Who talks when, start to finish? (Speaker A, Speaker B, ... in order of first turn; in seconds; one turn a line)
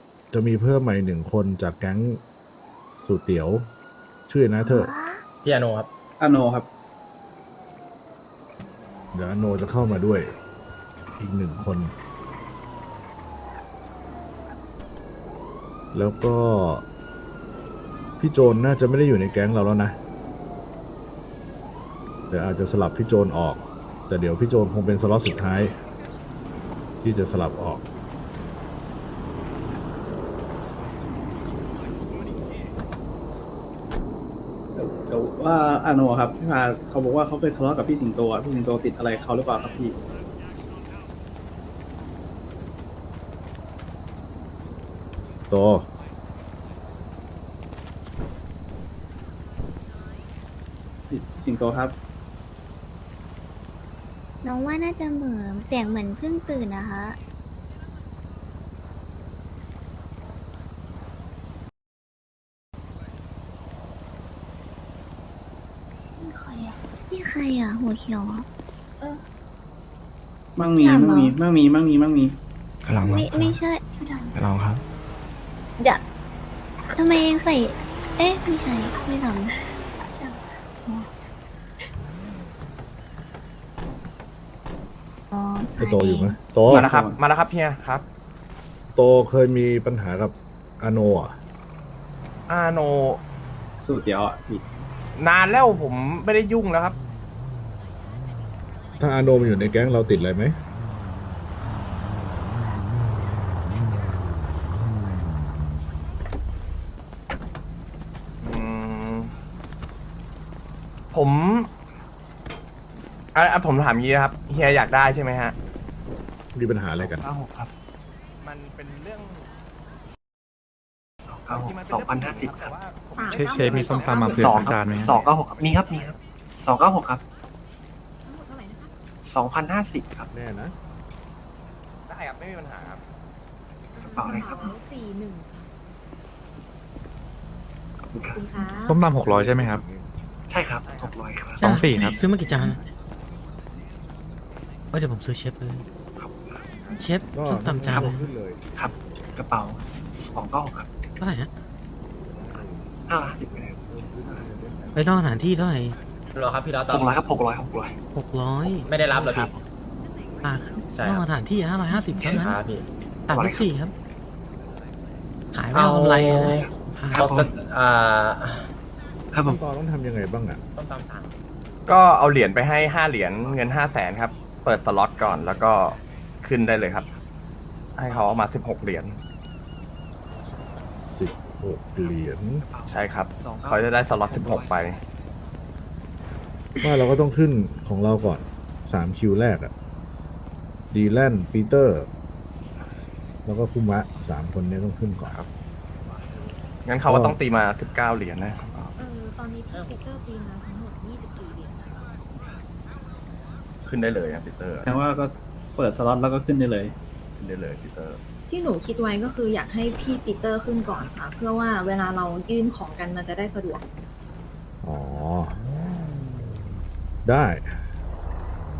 Speaker A: 0.3-2.2
Speaker A: 3.0-3.7
Speaker A: 4.3-4.9
Speaker B: 4.6-5.2
Speaker C: 5.4-5.9
Speaker D: 6.2-6.7
Speaker A: 9.1-10.3
Speaker A: 11.2-11.9
Speaker A: 15.9-16.8
Speaker A: 18.2-19.9
Speaker A: 22.3-25.8
Speaker A: 27.0-27.8
Speaker D: 34.7-39.9
Speaker A: 45.5-45.9
Speaker D: 51.1-51.9
Speaker B: 54.4-57.2
Speaker B: 67.1-68.5
Speaker D: 70.5-72.4
Speaker B: 70.8-71.3
Speaker B: 73.0-73.8
Speaker E: 73.2-73.4
Speaker B: 76.9-81.1
Speaker B: 85.3-86.3
Speaker A: 85.8-86.9
Speaker D: 86.7-87.2
Speaker F: 86.7-88.0
Speaker A: 88.9-91.4
Speaker F: 92.5-93.2
Speaker D: 93.8-94.6
Speaker F: 95.2-97.0
Speaker A: 99.0-100.6
Speaker F: 108.4-109.3
Speaker F: 111.1-111.7
Speaker F: 113.3-115.5
Speaker A: 116.5-117.2
Speaker E: 116.8-117.7
Speaker F: 118.4-119.5
Speaker E: 121.2-122.7
Speaker F: 121.5-126.1
Speaker G: 123.1-125.0
Speaker H: 123.3-125.1
Speaker E: 124.3-127.2
Speaker G: 128.2-128.9
Speaker E: 129.2-130.3
Speaker A: 130.3-130.7
Speaker F: 132.1-133.0
Speaker E: 133.9-134.8
Speaker G: 133.9-135.7
Speaker E: 138.0-138.6
Speaker G: 138.3-139.0
Speaker H: 138.8-139.8
Speaker A: 139.2-140.1
Speaker E: 140.5-142.2
Speaker F: 140.8-141.1
Speaker H: 141.6-142.2
Speaker I: 141.6-142.8
Speaker I: 144.9-145.8
Speaker E: 146.2-146.7
Speaker I: 146.9-148.3
Speaker A: 147.3-148.6
Speaker E: 148.7-150.9
Speaker I: 151.2-151.5
Speaker A: 152.3-155.0
Speaker E: 153.1-154.4
Speaker I: 154.9-155.9
Speaker C: 156.3-157.2
Speaker E: 156.8-157.9
Speaker I: 158.1-158.9
Speaker C: 158.8-159.5
Speaker E: 159.1-159.6
Speaker I: 160.4-162.6
Speaker C: 160.9-161.2
Speaker C: 162.2-162.8
Speaker E: 162.2-162.5
Speaker E: 163.3-163.7
Speaker I: 163.3-163.9
Speaker I: 165.5-167.2
Speaker C: 165.7-168.7
Speaker E: 166.4-167.5
Speaker E: 169.3-169.6
Speaker A: 169.4-170.6
Speaker C: 170.7-171.3
Speaker E: 171.7-174.1
Speaker F: 171.9-177.1
Speaker E: 175.2-175.8
Speaker E: 176.9-177.2
Speaker F: 177.9-179.2
Speaker A: 181.1-182.6
Speaker E: 182.0-185.0
Speaker F: 182.9-185.0
Speaker A: 186.8-189.7
Speaker A: 190.9-192.1
Speaker A: 193.4-195.4
Speaker E: 196.1-196.5
Speaker F: 196.8-198.9
Speaker A: 197.1-197.4
Speaker G: 198.9-202.0
Speaker C: 199.7-200.0
Speaker E: 202.3-202.6
Speaker F: 203.8-204.9
Speaker D: 204.8-206.9
Speaker F: 207.4-208.2
Speaker G: 208.5-213.8
Speaker A: 214.8-215.6
Speaker A: 217.2-217.8